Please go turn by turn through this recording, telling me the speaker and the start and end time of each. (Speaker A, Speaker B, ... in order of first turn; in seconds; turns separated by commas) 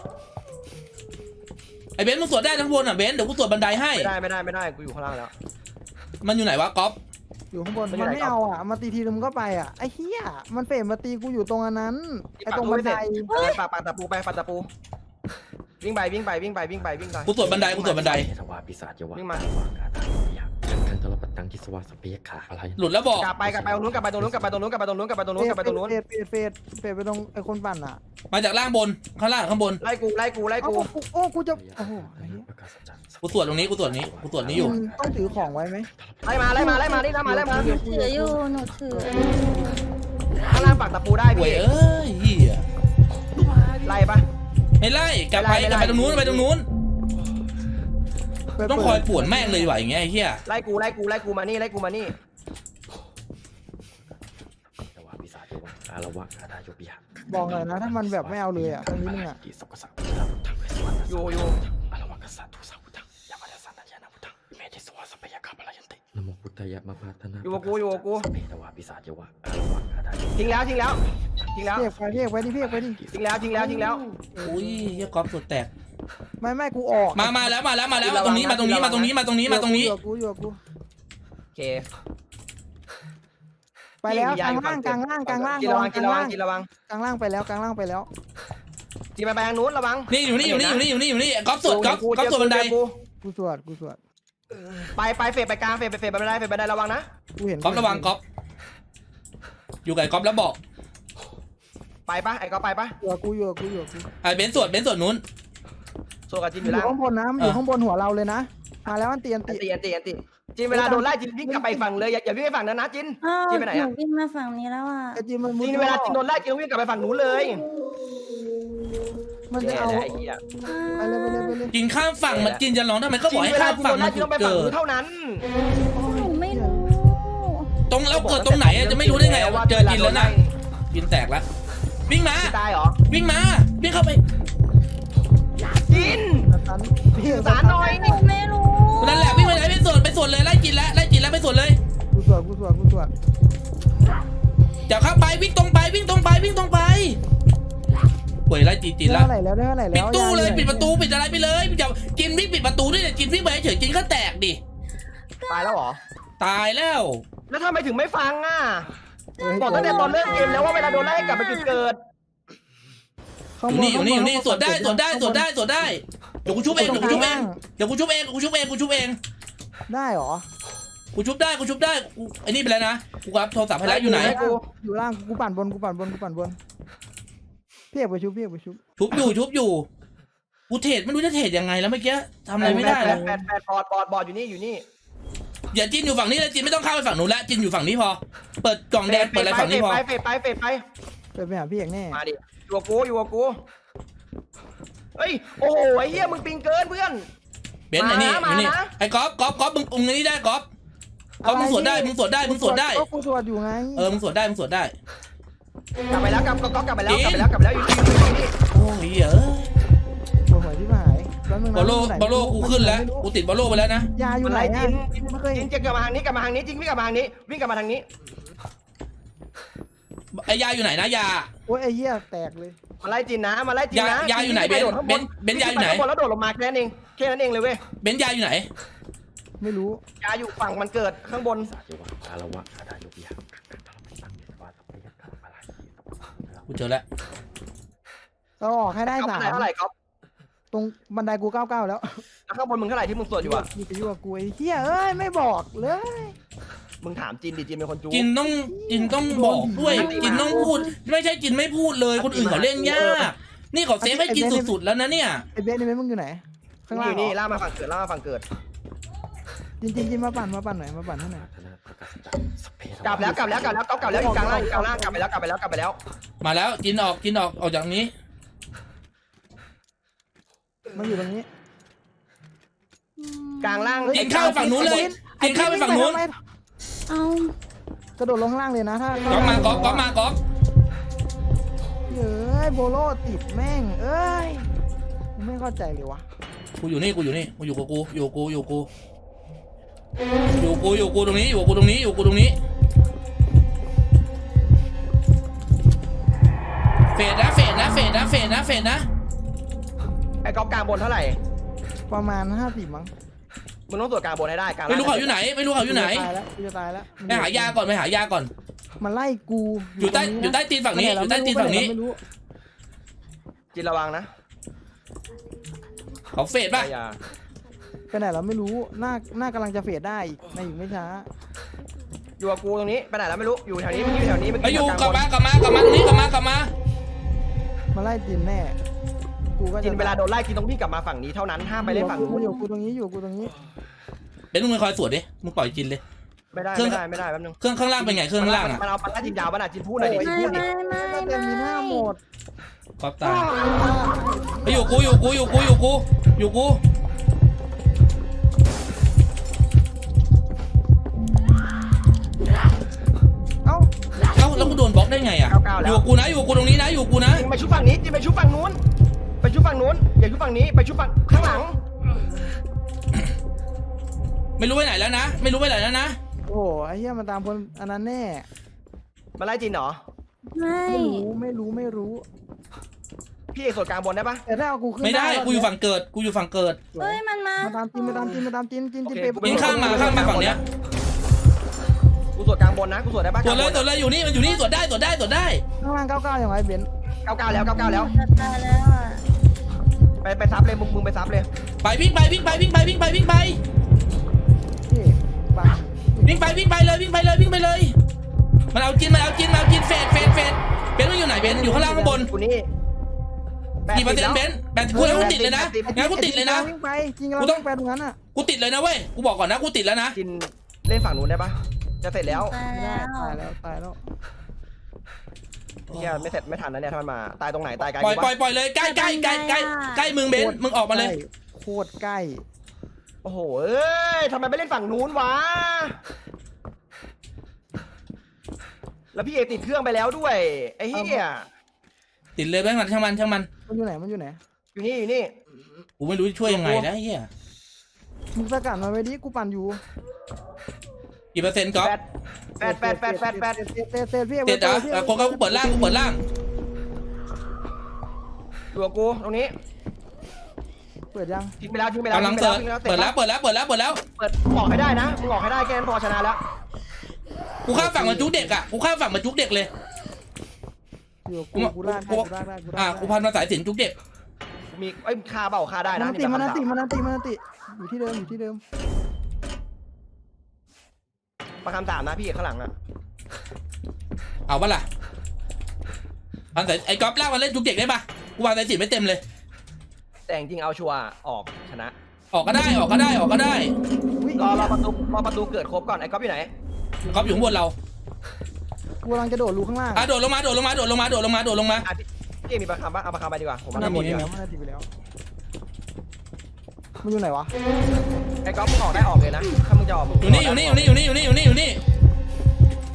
Speaker A: 2.0-4.1, Speaker B: 3.9-5.3, Speaker A: 6.2-7.0, Speaker C: 7.5-13.3, Speaker B: 7.9-8.3, Speaker B: 12.4-14.7, Speaker D: 13.2-13.6, Speaker B: 15.8-18.2, Speaker E: 17.1-24.6, Speaker A: 17.2-18.3, Speaker B: 19.1-19.4, Speaker A: 22.8-23.3, Speaker B: 23.2-25.9, Speaker C: 25.4-28.0, Speaker A: 28.3-29.8, Speaker B: 29.8-30.9, Speaker C: 30.6-32.5, Speaker E: 31.5-37.4, Speaker A: 33.2-34.8, Speaker C: 34.5-35.9, Speaker B: 36.2-37.8, Speaker C: 36.5-39.7, Speaker D: 37.6-39.2, Speaker B: 40.4-41.6, Speaker A: 41.3-42.6, Speaker B: 43.8-44.2, Speaker A: 44.8-46.6, Speaker B: 45.3-46.5, Speaker C: 48.6-49.8, Speaker A: 48.6-50.4, Speaker B: 50.5-52.1, Speaker E: 53.9-70.9, Speaker C: 57.3-59.4, Speaker B: 61.1-61.6, Speaker B: 67.4-68.3, Speaker B: 70.3-71.0, Speaker B: 71.5-71.8, Speaker E: 71.5-73.4, Speaker C: 71.7-73.0, Speaker B: 73.1-74.0, Speaker C: 73.5-75.1, Speaker A: 74.4-75.7, Speaker C: 76.4-77.5, Speaker A: 77.2-79.9, Speaker B: 78.0-79.1, Speaker C: 79.5-80.6, Speaker B: 81.5-81.9, Speaker C: 84.0-88.1, Speaker B: 84.0-86.7, Speaker B: 89.2-90.8, Speaker A: 90.1-92.7, Speaker B: 91.6-92.9, Speaker C: 93.2-94.0, Speaker B: 94.9-97.1, Speaker C: 97.4-98.1, Speaker A: 97.6-98.2, Speaker A: 99.8-100.6, Speaker B: 102.1-103.0, Speaker C: 103.0-104.1, Speaker A: 104.2-105.2, Speaker B: 106.3-107.0, Speaker C: 106.6-109.7, Speaker B: 109.5-113.9, Speaker C: 110.7-111.9, Speaker D: 113.2-115.2, Speaker C: 115.1-116.2, Speaker B: 115.6-117.6, Speaker C: 119.5-120.1, Speaker B: 119.6-120.4, Speaker D: 120.6-121.6, Speaker C: 121.0-121.7, Speaker A: 121.7-124.8, Speaker B: 122.3-122.6, Speaker B: 123.3-125.5, Speaker C: 125.9-126.8, Speaker D: 125.9-127.7, Speaker A: 127.9-130.3, Speaker B: 128.1-130.5, Speaker A: 130.9-131.4, Speaker A: 132.1-132.5, Speaker B: 132.4-133.0, Speaker A: 133.1-134.2, Speaker B: 135.9-136.5, Speaker C: 135.9-138.2, Speaker B: 137.2-138.2, Speaker D: 137.7-139.6, Speaker A: 139.0-141.8, Speaker C: 142.1-143.1, Speaker A: 144.9-147.2, Speaker A: 148.5-149.3, Speaker C: 149.0-150.9, Speaker A: 149.9-154.6, Speaker D: 155.4-155.8, Speaker B: 155.5-156.0, Speaker A: 156.4-157.2, Speaker B: 157.5-158.9, Speaker C: 159.4-160.8, Speaker D: 159.4-161.8, Speaker B: 159.6-162.0, Speaker C: 163.6-165.5, Speaker A: 163.7-169.2, Speaker C: 166.7-167.6, Speaker B: 166.7-167.3, Speaker C: 169.9-170.4, Speaker A: 171.1-174.3, Speaker B: 173.8-174.6, Speaker C: 174.0-176.6, Speaker C: 177.9-178.8, Speaker A: 179.0-179.8, Speaker A: 180.7-183.2, Speaker B: 182.6-184.8, Speaker C: 182.6-183.4, Speaker A: 185.7-190.0, Speaker B: 189.1-190.8, Speaker C: 191.3-192.2, Speaker B: 192.1-193.6, Speaker B: 195.2-197.3, Speaker A: 197.9-200.7, Speaker B: 197.9-198.9, Speaker C: 201.4-204.1, Speaker A: 201.4-203.0, Speaker A: 203.9-204.9, Speaker B: 206.1-208.5, Speaker A: 207.1-207.5, Speaker A: 208.7-209.7, Speaker C: 210.5-213.3, Speaker A: 211.7-214.1, Speaker C: 214.2-215.7, Speaker B: 214.4-218.0, Speaker A: 220.3-221.5, Speaker C: 221.7-222.8, Speaker B: 223.0-227.8, Speaker A: 223.9-226.0, Speaker A: 228.0-228.7, Speaker C: 229.6-230.0, Speaker B: 230.2-231.7, Speaker E: 231.6-236.7, Speaker A: 236.7-237.0, Speaker C: 238.6-239.7, Speaker B: 239.1-239.9, Speaker C: 240.7-242.2, Speaker B: 242.5-243.7, Speaker C: 243.4-246.3, Speaker B: 247.0-248.3, Speaker A: 248.1-255.4, Speaker C: 248.4-250.6, Speaker D: 249.9-250.9, Speaker B: 250.0-250.7, Speaker B: 252.2-253.3, Speaker C: 254.0-254.7, Speaker C: 255.5-257.4, Speaker B: 256.9-258.4, Speaker C: 259.8-261.4, Speaker E: 261.3-264.6, Speaker B: 263.0-266.0, Speaker C: 263.2-265.2, Speaker A: 266.4-268.1, Speaker C: 270.9-271.5, Speaker D: 273.2-274.1, Speaker B: 273.6-275.1, Speaker C: 274.1-276.4, Speaker A: 274.1-276.2, Speaker D: 277.1-277.5, Speaker C: 278.2-280.1, Speaker A: 279.3-280.4, Speaker C: 282.1-284.7, Speaker C: 285.4-286.2, Speaker A: 286.8-288.9, Speaker A: 290.6-292.5, Speaker A: 297.1-299.1, Speaker B: 300.4-301.4, Speaker C: 302.1-303.1, Speaker B: 303.9-305.3, Speaker A: 304.9-306.3, Speaker C: 305.8-307.8, Speaker A: 307.3-308.5, Speaker C: 309.0-312.2, Speaker A: 310.0-311.9, Speaker B: 313.7-314.3, Speaker A: 316.3-316.9, Speaker B: 316.7-317.2, Speaker C: 318.1-321.3, Speaker B: 322.4-325.2, Speaker A: 324.6-326.7, Speaker C: 327.9-328.8, Speaker C: 329.6-330.2, Speaker B: 329.8-332.5, Speaker C: 331.8-333.5, Speaker D: 331.9-332.6, Speaker A: 334.5-336.0, Speaker B: 336.5-340.6, Speaker A: 336.7-337.0, Speaker A: 337.6-338.8, Speaker C: 340.0-342.2, Speaker D: 340.1-342.1, Speaker A: 343.0-343.5, Speaker B: 343.2-343.7, Speaker C: 343.5-345.1, Speaker A: 344.6-346.8, Speaker C: 353.6-353.9, Speaker A: 354.4-357.5, Speaker B: 355.5-356.0, Speaker B: 357.3-358.8, Speaker B: 359.4-361.8, Speaker A: 364.6-366.2, Speaker C: 366.5-368.5, Speaker B: 369.4-370.0, Speaker D: 370.5-371.2, Speaker C: 370.9-372.2, Speaker B: 373.5-374.4, Speaker C: 374.5-375.7, Speaker A: 375.0-376.8, Speaker C: 376.9-380.4, Speaker D: 377.0-378.4, Speaker B: 379.1-380.6, Speaker A: 379.4-380.6, Speaker B: 382.4-383.9, Speaker A: 383.4-385.6, Speaker C: 385.8-386.9, Speaker B: 387.2-388.1, Speaker D: 387.6-389.2, Speaker B: 390.2-391.5, Speaker A: 391.8-393.6, Speaker C: 394.9-396.7, Speaker A: 396.2-397.9, Speaker A: 398.7-402.3, Speaker B: 401.4-402.7, Speaker B: 403.9-405.9, Speaker A: 403.9-406.7, Speaker C: 404.9-408.2, Speaker A: 408.3-410.2, Speaker B: 410.1-412.6, Speaker D: 412.3-413.4, Speaker C: 412.7-414.0, Speaker A: 415.9-416.3, Speaker B: 415.9-418.3, Speaker A: 418.0-421.1, Speaker D: 418.8-420.1, Speaker C: 420.2-422.4, Speaker B: 423.2-426.0, Speaker B: 429.1-431.5, Speaker C: 430.9-431.2, Speaker A: 432.4-433.5, Speaker C: 433.7-434.4, Speaker B: 434.7-435.3, Speaker A: 436.0-437.3, Speaker B: 436.4-436.9, Speaker C: 438.3-439.8, Speaker A: 441.3-441.9, Speaker B: 442.6-443.6, Speaker C: 442.6-446.0, Speaker A: 444.4-446.2, Speaker B: 448.7-449.5, Speaker C: 451.1-451.5, Speaker B: 451.6-453.1, Speaker A: 452.1-454.0, Speaker B: 454.1-456.4, Speaker A: 457.6-459.7, Speaker C: 457.7-458.6, Speaker C: 461.2-463.2, Speaker A: 461.5-463.9, Speaker B: 464.7-466.6, Speaker C: 465.9-468.6, Speaker B: 471.6-472.7, Speaker A: 474.5-474.8, Speaker A: 476.5-479.2, Speaker B: 480.3-481.9, Speaker A: 482.3-483.7, Speaker C: 484.2-484.8, Speaker B: 484.4-486.5, Speaker C: 487.0-487.6, Speaker A: 487.1-487.7, Speaker C: 489.0-490.1, Speaker A: 489.9-491.9, Speaker B: 491.8-494.3, Speaker C: 493.7-494.9, Speaker A: 493.7-494.2, Speaker C: 497.0-497.5, Speaker B: 498.4-501.0, Speaker A: 500.2-501.8